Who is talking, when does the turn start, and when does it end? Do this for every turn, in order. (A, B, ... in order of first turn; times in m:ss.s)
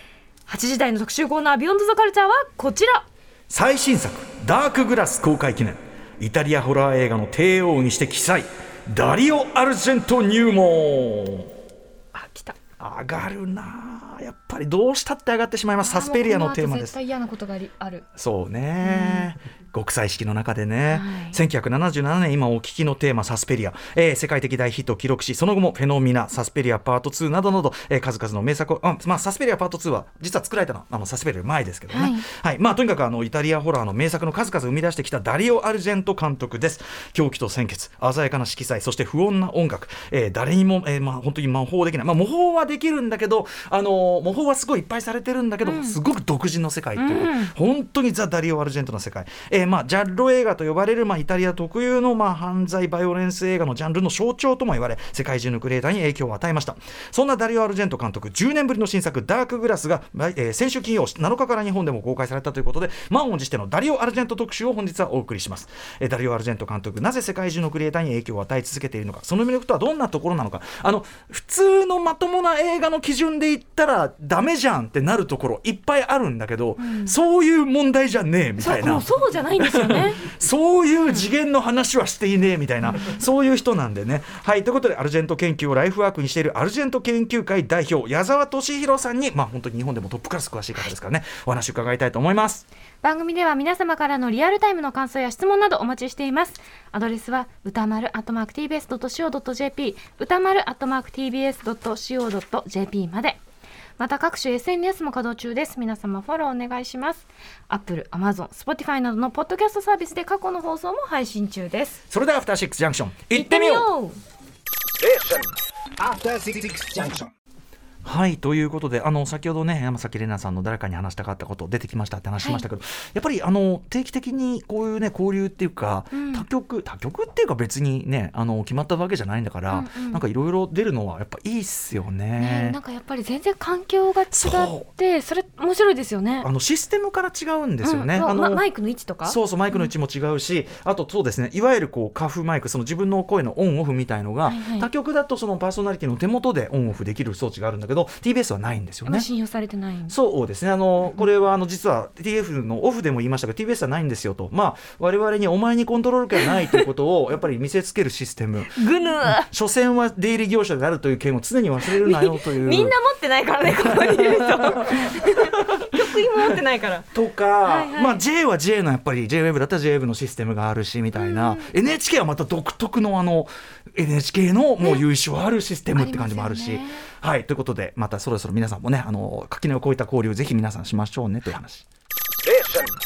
0:00.5-0:03.0 A
0:03.5-0:11.5 B
0:12.1-0:12.6 A
0:12.8-0:17.0 B
0:15.8-0:18.0 A
0:18.2-1:32.6 B
0:18.8-0:19.3 A
0:20.9-0:21.4 A
0:31.9-0:32.3 A
0:45.6-0:46.0 A
0:47.0-0:47.5 A
1:16.8-1:17.1 A
1:18.6-1:20.2 A
1:33.0-1:43.4 A
1:44.0-1:52.0 A
1:52.1-1:53.9 B
1:53.3-1:54.2 A
1:55.0-1:55.4 C
1:56.0-1:57.3 C
1:58.0-2:12.8 B
2:06.1-2:06.5 A
2:09.7-2:10.2 A
2:12.4-2:16.5 A
2:14.3-2:14.9 B
2:16.4-2:18.6 B
2:17.8-2:19.9 A
2:19.2-2:29.3 B
2:24.5-2:24.9 A
2:29.1-2:30.2 A
2:30.1-2:43.0 B
2:38.7-2:39.5 A
2:42.0-2:47.1 A
2:43.7-2:46.6 B
2:47.1-3:01.9 B
2:47.6-2:48.2 A
2:51.2-2:51.7 A
2:56.0-2:57.1 A
3:02.5-3:02.9 C